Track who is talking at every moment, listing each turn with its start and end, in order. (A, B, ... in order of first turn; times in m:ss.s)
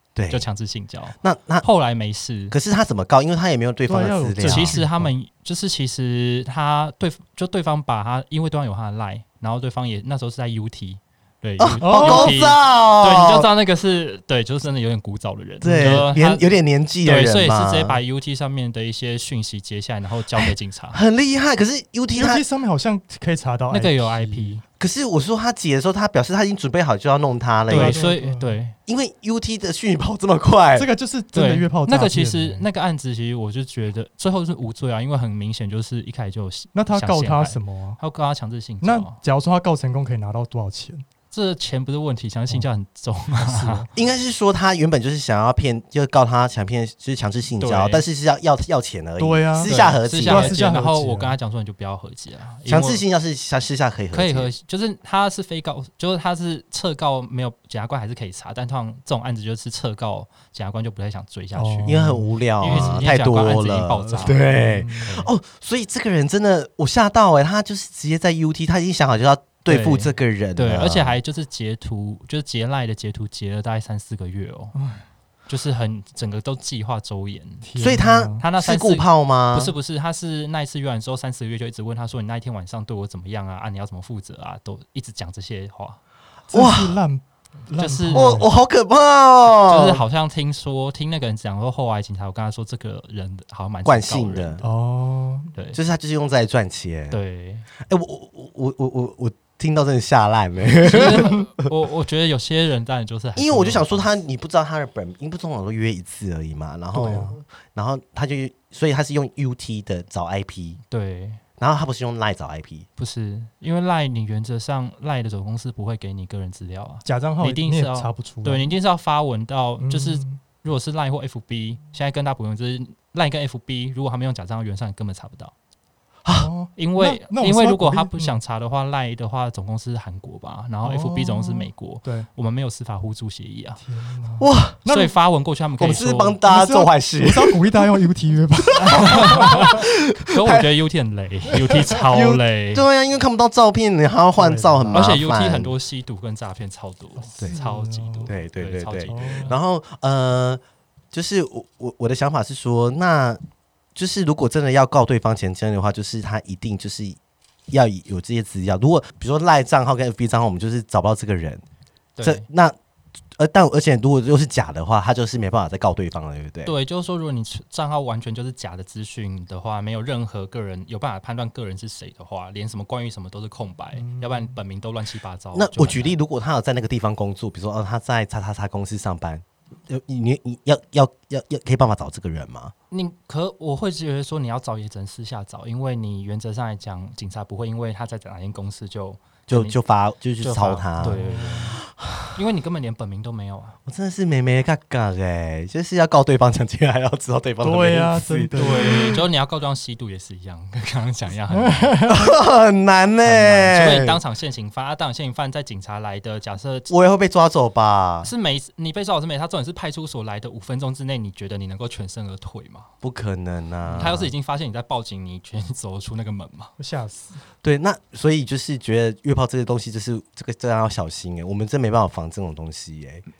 0:00.1-0:00.4 A
0:00.3-0:02.5 B
0:01.2-0:01.6 A
0:02.5-0:04.8 A
0:03.9-0:05.1 C
0:04.4-0:21.0 B
0:11.6-0:13.5 A
0:11.8-0:12.4 C
0:15.6-0:18.0 A
0:20.4-0:22.4 A
0:22.1-0:24.6 C
0:23.7-0:24.6 B
0:24.8-0:28.0 A
0:27.7-0:28.8 B
0:27.7-0:28.6 C
0:28.8-0:30.9 A
0:30.8-0:32.7 C
0:31.3-0:39.2 B
0:36.7-0:38.0 C
0:38.8-0:41.0 C
0:41.3-0:43.8 B
0:43.3-0:43.9 C
0:43.9-0:50.6 A
0:47.6-0:48.0 B
0:49.2-0:51.3 C
0:49.6-0:53.0 B
0:52.6-0:54.5 A
0:54.1-1:02.0 B
1:01.5-1:03.1 C
1:01.8-1:11.2 A
1:02.6-1:04.4 B
1:04.5-1:05.1 C
1:09.6-1:14.7 B
1:14.7-1:15.0 C
1:15.5-1:17.7 B
1:17.6-1:18.4 C
1:17.8-1:19.7 A
1:18.4-1:26.0 B
1:26.5-1:28.5 C
1:26.5-1:27.0 A
1:27.8-1:28.4 B
1:28.1-1:30.0 A
1:29.5-1:34.6 B
1:33.8-1:34.6 A
1:34.6-1:35.5 C
1:35.7-1:37.2 A
1:37.1-1:37.7 B
1:37.8-1:41.7 A
1:40.8-1:44.2 B
1:43.4-1:50.8 A
1:46.9-1:47.4 C
1:50.9-1:51.4 B
1:51.6-1:52.9 A
1:53.0-2:05.5 B
1:57.0-1:58.7 C
1:59.8-2:00.4 C
2:06.2-2:06.5 A
2:06.4-2:08.4 C
2:06.7-2:13.8 B
2:10.8-2:12.3 C
2:13.8-2:15.1 C
2:14.4-2:14.8 A
2:14.8-2:16.4 B
2:15.8-2:17.8 A
2:16.4-2:19.8 C
2:18.6-2:20.7 A
2:18.7-2:22.8 B
2:22.0-2:25.7 A
2:24.4-2:25.2 C
2:24.9-2:29.5 B
2:27.2-2:28.3 C
2:28.3-2:30.6 A
2:29.1-2:29.6 C
2:31.1-2:33.4 A
2:33.9-2:37.2 A
2:37.7-2:41.6 A
2:42.2-2:42.4 B
2:42.2-2:42.8 A
2:43.4-2:46.7 A
2:46.6-2:56.2 B
2:54.0-2:54.6 C
2:55.5-3:02.7 A
3:02.9-3:09.8 B
3:09.5-3:11.2 A
3:10.4-3:11.8 B
3:11.0-3:11.8 C
3:11.8-3:12.4 A
3:12.3-3:13.8 B
3:13.8-3:19.2 A
3:17.6-3:19.2 C
3:18.5-3:22.1 B
3:21.5-3:22.3 C
3:22.1-3:24.2 A
3:23.2-3:26.9 B
3:26.9-3:28.3 A
3:28.2-3:32.9 B
3:33.0-3:34.3 A
3:33.8-3:36.7 B
3:36.8-3:37.4 C
3:37.6-3:43.2 A